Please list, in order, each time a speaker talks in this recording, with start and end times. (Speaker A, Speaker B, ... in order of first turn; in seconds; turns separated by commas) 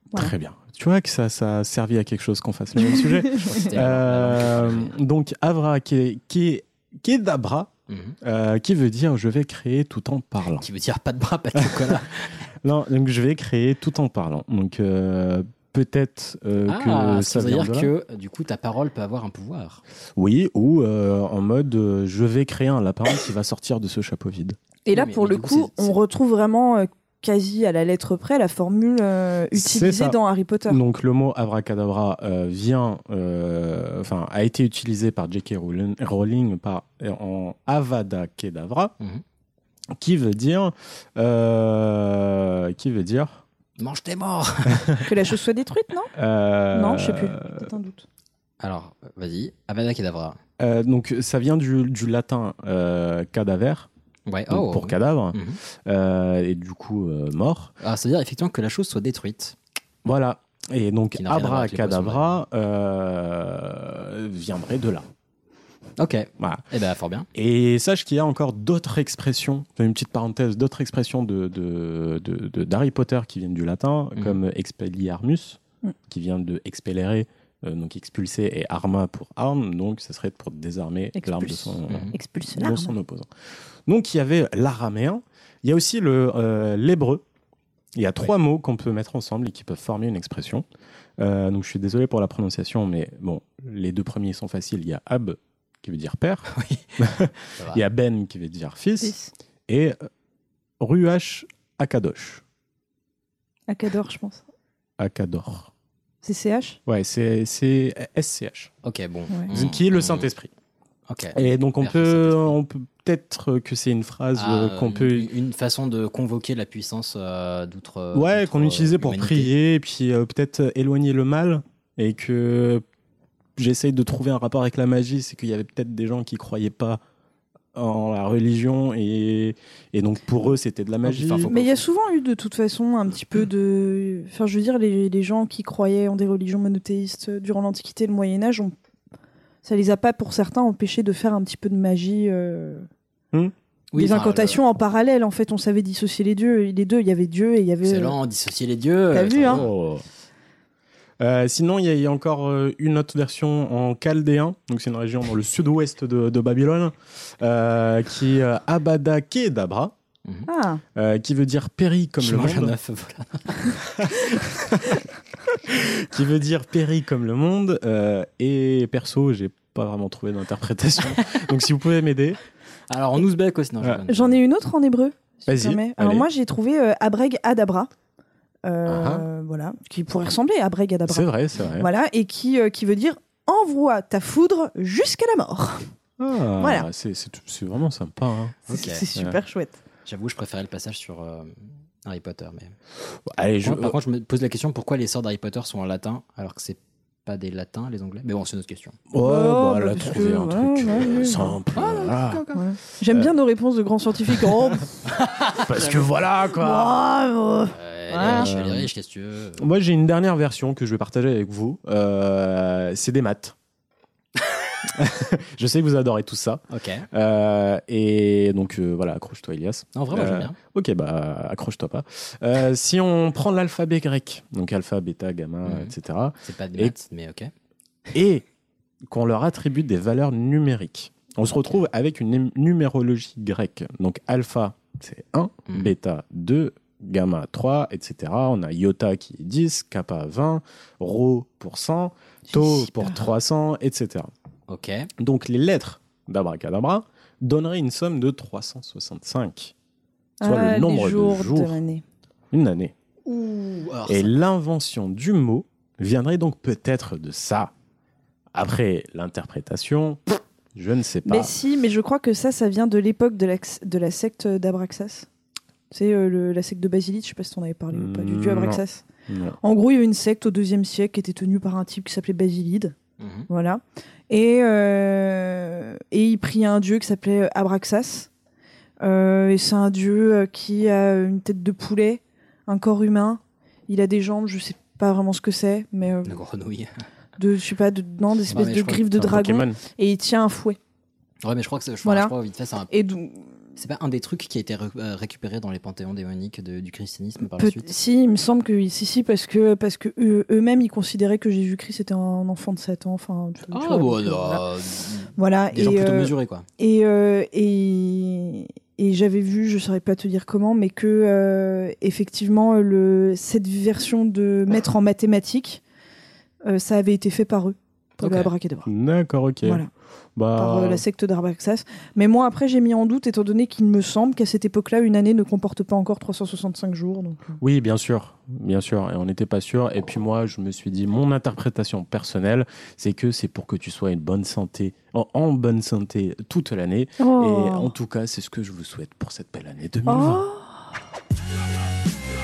Speaker A: 0.1-7.7, Speaker B: 2.8-3.6, Speaker C: 3.5-4.9, Speaker C: 7.9-8.2, Speaker A: 8.2-10.6, Speaker C: 10.6-12.4, Speaker A: 11.6-12.0, Speaker A: 12.6-17.9, Speaker C: 16.7-19.8, Speaker A: 20.1-24.6, Speaker B: 24.9-30.8, Speaker C: 24.9-25.9, Speaker A: 29.5-38.9, Speaker A: 40.0-43.4, Speaker C: 43.8-45.0, Speaker A: 44.7-45.0, Speaker B: 45.0-46.1, Speaker A: 46.1-47.7, Speaker B: 46.7-48.0, Speaker C: 48.6-50.4, Speaker A: 50.6-53.9, Speaker C: 54.3-55.6, Speaker A: 54.5-57.7, Speaker C: 57.8-59.5, Speaker A: 60.0-65.0, Speaker C: 61.1-62.4, Speaker C: 66.0-67.3, Speaker A: 67.3-83.3, Speaker B: 81.1-82.9, Speaker C: 81.9-82.1, Speaker A: 83.8-87.2, Speaker A: 87.9-90.7, Speaker A: 91.2-99.2, Speaker C: 96.5-96.8, Speaker C: 97.5-97.8, Speaker B: 99.0-99.3, Speaker A: 99.7-100.1, Speaker A: 100.8-102.4, Speaker B: 103.7-104.4, Speaker A: 105.0-105.7, Speaker B: 106.2-106.8, Speaker A: 106.8-108.7, Speaker C: 108.8-110.3, Speaker A: 109.5-110.5, Speaker C: 111.1-112.5, Speaker A: 111.3-115.3, Speaker C: 114.3-119.5, Speaker A: 118.1-122.8, Speaker A: 123.5-127.0, Speaker A: 127.7-131.5, Speaker C: 131.0-131.8, Speaker B: 131.5-138.7, Speaker B: 139.6-142.9, Speaker C: 143.9-144.6, Speaker B: 143.9-148.1, Speaker C: 147.8-149.7, Speaker B: 149.1-149.6, Speaker A: 149.4-150.0, Speaker A: 151.2-159.9, Speaker B: 160.5-160.8, Speaker A: 160.9-162.8, Speaker C: 162.2-163.9, Speaker A: 164.0-165.0, Speaker A: 165.5-172.4, Speaker C: 172.9-174.4, Speaker B: 174.1-177.9, Speaker A: 175.5-176.3, Speaker B: 178.7-181.3, Speaker A: 178.8-179.3, Speaker A: 181.1-181.9, Speaker B: 181.8-185.9, Speaker A: 186.2-188.6, Speaker B: 186.6-186.8, Speaker C: 188.7-189.0, Speaker B: 188.7-189.8, Speaker C: 190.1-191.5, Speaker C: 192.0-192.7, Speaker A: 193.2-193.9, Speaker C: 193.6-199.0, Speaker A: 199.1-202.5, Speaker B: 199.2-201.6, Speaker C: 201.7-202.6, Speaker B: 202.5-204.9, Speaker A: 203.1-203.3, Speaker A: 204.4-204.8, Speaker C: 205.1-206.1, Speaker A: 205.5-207.0, Speaker B: 206.6-208.5, Speaker C: 207.7-209.7, Speaker A: 208.2-208.9, Speaker A: 209.6-213.6, Speaker A: 214.8-226.9, Speaker C: 216.7-217.1, Speaker C: 219.9-220.6, Speaker C: 225.6-225.9, Speaker C: 226.4-227.5, Speaker A: 228.1-228.4, Speaker A: 229.1-244.3, Speaker B: 242.5-243.2, Speaker C: 244.7-245.1, Speaker A: 245.2-249.7, Speaker B: 250.4-252.0, Speaker A: 250.4-251.8, Speaker A: 252.5-252.9, Speaker C: 253.2-254.3, Speaker A: 254.1-257.7, Speaker A: 258.5-261.5, Speaker B: 261.2-265.3, Speaker B: 265.9-269.0, Speaker A: 267.9-269.6, Speaker B: 269.6-272.9, Speaker C: 273.2-273.5, Speaker B: 273.5-278.3, Speaker B: 279.0-286.4, Speaker C: 286.2-286.9, Speaker B: 287.4-290.8, Speaker A: 288.5-289.8, Speaker C: 288.5-289.1, Speaker C: 291.4-292.9, Speaker B: 292.0-292.3, Speaker B: 292.9-293.5, Speaker C: 293.8-297.9, Speaker B: 297.6-304.6, Speaker C: 303.7-306.6, Speaker B: 305.4-315.8, Speaker B: 316.6-318.9, Speaker C: 318.2-318.5, Speaker A: 318.9-321.0, Speaker B: 320.5-327.6, Speaker A: 327.6-340.5, Speaker B: 337.2-337.9, Speaker B: 340.1-340.8